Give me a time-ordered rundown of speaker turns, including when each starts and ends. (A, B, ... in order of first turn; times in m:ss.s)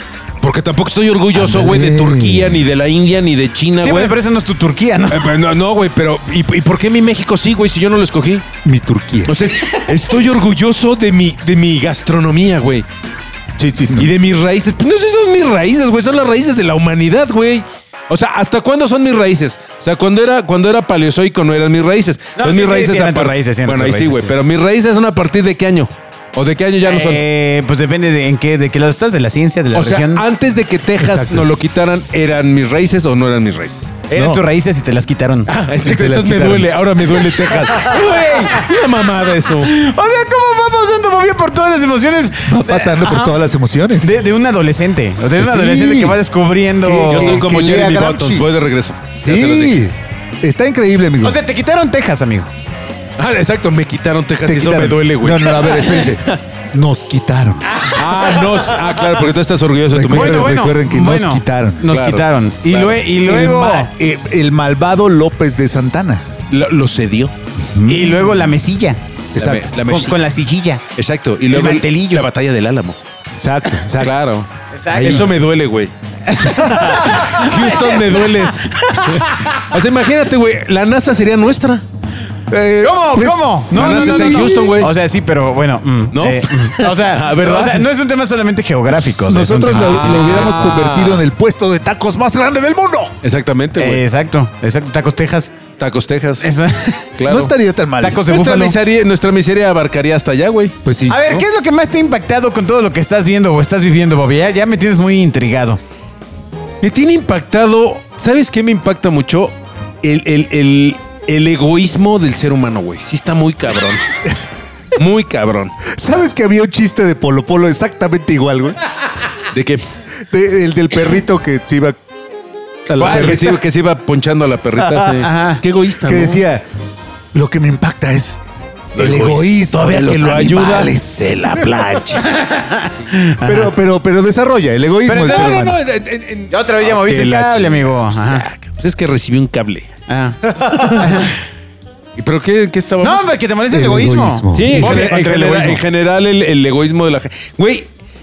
0:00.4-0:04.2 A
0:01.3-0:02.6 B
0:03.8-0:05.3 C
0:05.1-0:08.4 A
0:08.6-0:09.4 B
0:09.3-0:12.8 A
0:13.6-0:14.1 B
0:14.0-0:27.3 A
0:22.4-0:24.3 C
0:26.8-0:30.2 C
0:29.7-0:33.9 A
0:31.0-0:31.5 B
0:34.1-0:35.5 C
0:34.1-0:34.4 B
0:35.5-0:39.7 A
0:35.8-0:37.6 B
0:37.8-0:38.7 C
0:39.5-0:43.4 C
0:42.4-0:44.1 B
0:44.0-0:47.4 C
0:45.4-0:46.2 B
0:46.8-0:48.5 B
0:47.1-0:49.8 A
0:49.2-0:51.4 B
0:51.2-0:52.5 C
0:53.2-0:56.4 A
0:54.4-0:57.6 B
0:57.8-0:58.7 C
0:57.9-1:00.6 A
0:59.9-1:01.8 B
1:00.1-1:03.9 C
1:01.9-1:03.0 A
1:03.2-1:06.2 B
1:06.5-1:07.3 A
1:07.7-1:08.3 B
1:07.9-1:09.0 C
1:09.3-1:09.6 B
1:09.4-1:10.2 A
1:09.8-1:10.8 C
1:11.0-1:13.0 A
1:11.5-1:12.3 C
1:13.4-1:14.1 B
1:14.0-1:21.8 A
1:14.7-1:15.3 C
1:14.9-1:15.4 B
1:16.3-1:19.7 C
1:22.5-1:24.6 B
1:22.8-1:30.7 C
1:23.7-1:24.9 A
1:26.1-1:27.8 A
1:29.2-1:33.1 B
1:29.7-1:31.3 A
1:33.2-1:34.0 A
1:33.8-1:35.5 C
1:35.8-1:36.5 A
1:36.4-1:37.4 C
1:37.2-1:37.5 A
1:37.3-1:38.2 B
1:38.0-1:38.8 C
1:38.2-1:41.4 A
1:40.8-1:41.2 B
1:41.1-1:45.8 C
1:46.8-1:54.0 A
1:55.0-1:55.7 A
1:55.8-1:58.8 B
1:59.5-1:59.8 A
2:00.3-2:02.0 B
2:02.9-2:03.6 B
2:03.0-2:06.5 A
2:04.8-2:05.2 B
2:05.1-2:05.6 C
2:06.0-2:06.6 B
2:07.3-2:08.4 B
2:08.9-2:12.3 A
2:09.0-2:11.7 B
2:12.2-2:13.7 C
2:13.4-2:15.8 B
2:15.0-2:15.7 C
2:15.2-2:19.9 A
2:16.5-2:18.4 C
2:20.1-2:21.3 C
2:20.7-2:21.3 A
2:22.2-2:23.3 A
2:23.0-2:25.7 C
2:23.7-2:25.8 B
2:24.5-2:27.9 A